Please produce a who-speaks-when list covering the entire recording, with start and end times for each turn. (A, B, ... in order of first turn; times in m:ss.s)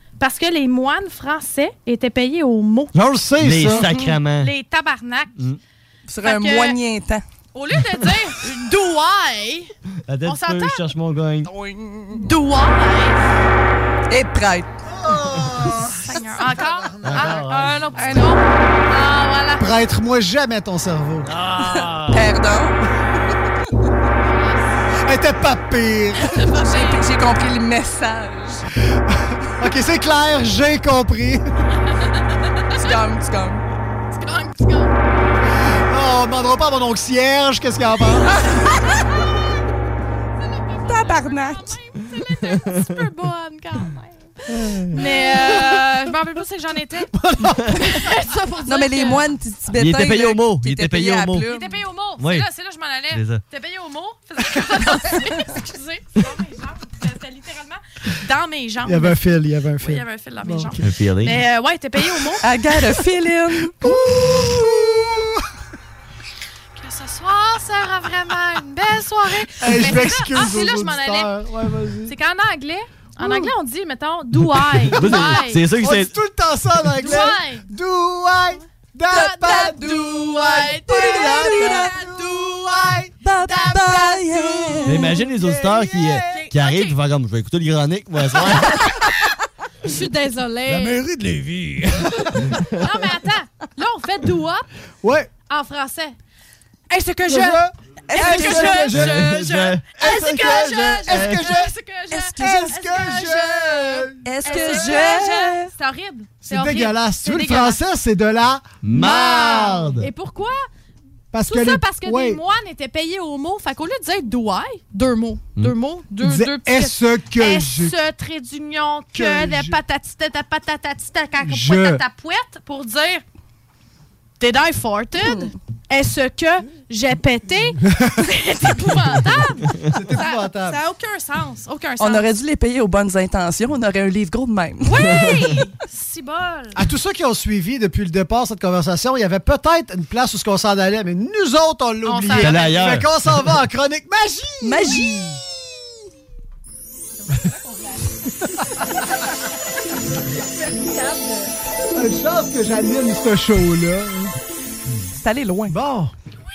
0:00.2-0:02.9 A
0:02.9-0:03.9 B
0:03.4-0:04.5 C
0:03.7-0:05.4 A
0:06.1-0:07.2 D
0:06.2-0:06.8 A
0:07.5-0:09.7 A
0:10.1-0:11.5 C
0:10.2-0:10.8 A
0:11.4-0:12.3 D
0:12.1-0:13.2 A
0:14.1-0:14.7 D
0:14.9-0:17.5 B
0:15.8-0:19.6 A
0:17.0-0:17.7 C
0:18.0-0:18.4 D
0:19.6-0:21.3 B
0:21.2-0:22.3 C
0:21.6-0:23.0 D
0:24.2-0:24.9 A
0:25.0-0:26.4 B
0:26.2-0:27.0 A
0:26.3-0:28.7 D
0:29.6-0:31.4 B
0:31.9-0:32.2 A
0:32.8-0:33.6 D
0:34.1-0:34.9 A
0:35.6-0:38.4 B
0:40.4-0:44.3 A
0:40.9-0:41.8 D
0:44.9-0:47.1 A
0:47.1-0:47.8 B
0:47.8-0:49.3 A
0:48.6-0:51.8 D
0:49.7-0:51.5 C
0:51.4-0:59.2 A
0:52.2-0:52.5 C
0:53.1-0:53.4 C
0:58.8-1:00.8 B
0:59.8-1:02.4 A
1:00.8-1:01.4 C
1:02.4-1:04.0 D
1:03.8-1:05.4 B
1:06.8-1:11.3 A
1:09.6-1:12.1 B
1:12.0-1:15.7 A
1:14.6-1:16.1 C
1:14.8-1:26.5 B
1:17.0-1:17.7 A
1:19.1-1:22.0 D
1:19.1-1:22.2 A
1:23.2-1:25.2 D
1:23.6-1:24.1 A
1:24.8-1:28.8 C
1:26.3-1:27.0 A
1:29.8-1:31.0 A
1:30.7-1:32.6 B
1:32.8-1:34.6 A
1:35.0-1:35.3 B
1:35.5-1:36.1 A
1:36.9-1:47.8 A
1:37.3-1:39.4 B
1:38.1-1:39.0 D
1:38.3-1:41.5 C
1:39.9-1:41.7 B
1:42.1-1:43.0 D
1:42.4-1:44.8 B
1:44.2-1:45.7 D
1:46.4-1:50.0 B
1:48.8-1:50.0 C
1:48.9-1:50.6 A
1:51.3-1:52.4 B
1:51.5-2:03.2 A
1:56.2-1:58.0 B
1:59.1-1:59.8 B
2:01.4-2:02.0 B
2:04.4-2:12.3 A
2:08.0-2:08.2 B
2:09.9-2:10.8 B
2:12.0-2:15.2 D
2:14.8-2:16.8 A
2:16.7-2:25.2 B
2:22.0-2:23.0 A
2:22.3-2:23.1 C
2:24.6-2:25.4 D
2:27.2-2:28.1 A
2:30.5-2:31.5 A
2:31.9-2:34.3 B
2:35.2-2:35.8 D
2:35.7-2:36.1 B